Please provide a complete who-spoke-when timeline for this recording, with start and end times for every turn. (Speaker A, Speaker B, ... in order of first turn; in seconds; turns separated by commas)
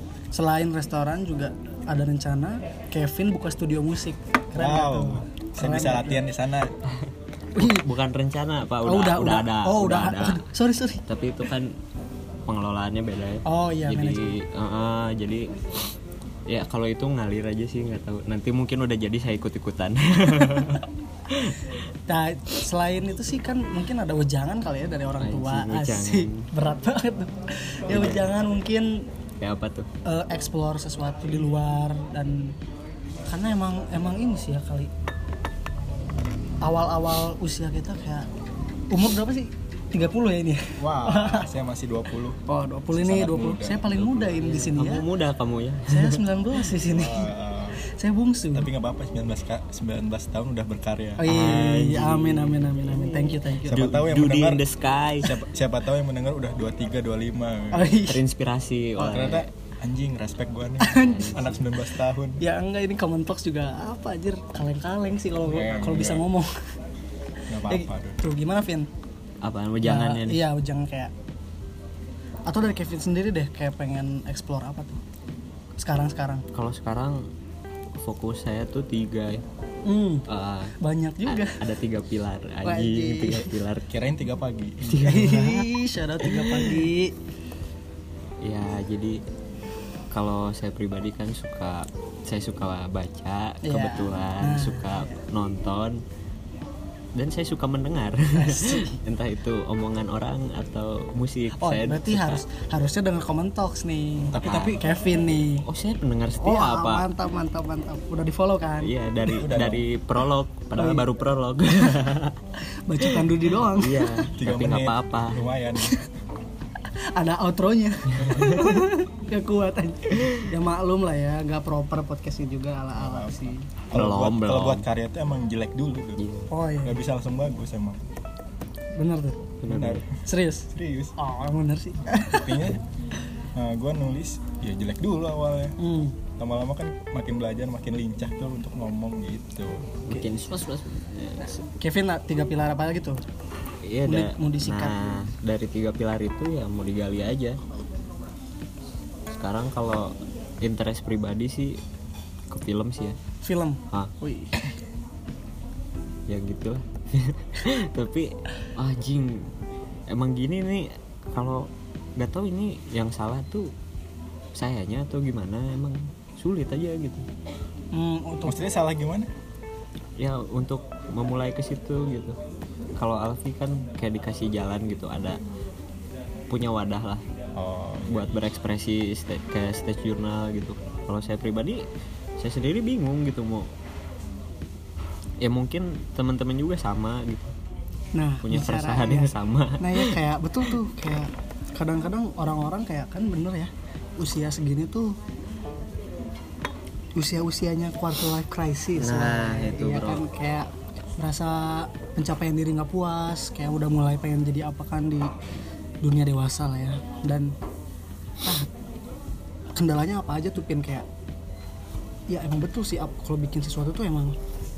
Speaker A: 0.3-6.2, Speaker B: 4.6-6.8, Speaker A: 7.5-7.9, Speaker C: 7.6-10.4, Speaker A: 8.8-11.0, Speaker C: 11.1-11.8, Speaker C: 12.5-15.9, Speaker A: 13.4-14.3, Speaker C: 16.5-21.7, Speaker A: 22.1-29.1, Speaker C: 25.2-26.5, Speaker C: 27.9-28.2, Speaker C: 29.4-29.9, Speaker A: 30.0-32.5, Speaker A: 33.3-34.9, Speaker A: 36.6-38.3, Speaker A: 38.9-41.5, Speaker B: 40.8-44.2, Speaker A: 42.5-45.0, Speaker C: 44.1-46.2, Speaker A: 45.9-47.3, Speaker B: 46.9-47.8, Speaker A: 47.8-48.7, Speaker B: 48.5-51.4, Speaker A: 51.2-54.0, Speaker C: 51.3-52.8, Speaker B: 53.6-54.6, Speaker C: 53.7-55.4, Speaker B: 55.2-58.0, Speaker A: 57.7-58.2, Speaker C: 58.0-59.5, Speaker B: 59.0-62.4, Speaker A: 60.8-61.4, Speaker C: 61.0-61.6, Speaker A: 62.4-66.5, Speaker B: 65.4-66.3, Speaker B: 67.5-68.2, Speaker A: 67.7-68.9, Speaker C: 69.4-70.4, Speaker A: 69.8-71.1, Speaker A: 72.5-75.0, Speaker A: 75.8-76.4, Speaker C: 76.5-77.3, Speaker C: 78.0-79.4, Speaker A: 79.8-80.3, Speaker C: 80.3-83.9, Speaker A: 80.8-81.6, Speaker A: 82.6-83.5, Speaker B: 83.9-85.2, Speaker C: 84.8-86.9, Speaker A: 85.0-87.1, Speaker C: 88.4-89.2, Speaker C: 90.1-96.0, Speaker A: 93.6-95.2, Speaker C: 97.1-102.4, Speaker A: 98.3-99.0, Speaker A: 101.6-105.6, Speaker B: 104.3-104.8, Speaker C: 104.3-104.8, Speaker C: 105.6-107.0, Speaker A: 106.4-109.4, Speaker C: 108.8-112.4, Speaker B: 109.4-109.9, Speaker A: 110.8-111.0, Speaker A: 112.7-114.3, Speaker C: 113.0-115.5, Speaker B: 114.4-116.0, Speaker A: 117.1-123.7, Speaker B: 118.2-118.6, Speaker C: 118.3-118.8, Speaker B: 123.0-126.2, Speaker C: 123.9-124.8, Speaker C: 126.2-126.5, Speaker A: 126.5-127.0, Speaker B: 126.8-128.0, Speaker A: 129.0-129.5, Speaker C: 129.6-130.0, Speaker B: 129.7-130.2, Speaker A: 130.2-132.7, Speaker B: 130.7-131.1, Speaker B: 132.2-132.8, Speaker B: 133.5-135.8, Speaker A: 135.8-136.2, Speaker B: 136.4-140.0, Speaker C: 140.1-141.6, Speaker A: 140.1-140.4, Speaker A: 141.4-143.2, Speaker C: 143.8-147.6, Speaker A: 144.1-144.9, Speaker C: 149.3-151.8, Speaker C: 152.5-153.2, Speaker A: 153.4-154.6, Speaker C: 156.3-159.5, Speaker C: 160.1-163.7, Speaker C: 164.6-167.2, Speaker A: 167.9-168.6, Speaker B: 168.4-169.3, Speaker C: 170.2-172.4, Speaker C: 173.0-175.4, Speaker C: 176.5-177.2, Speaker B: 177.5-178.3, Speaker C: 178.0-181.8, Speaker C: 182.4-183.7, Speaker C: 185.4-187.5, Speaker A: 188.1-195.2, Speaker C: 188.4-190.2, Speaker A: 197.1-205.3, Speaker C: 198.9-200.2, Speaker A: 206.0-207.6, Speaker A: 208.4-208.7, Speaker A: 209.8-211.1, Speaker A: 212.3-214.3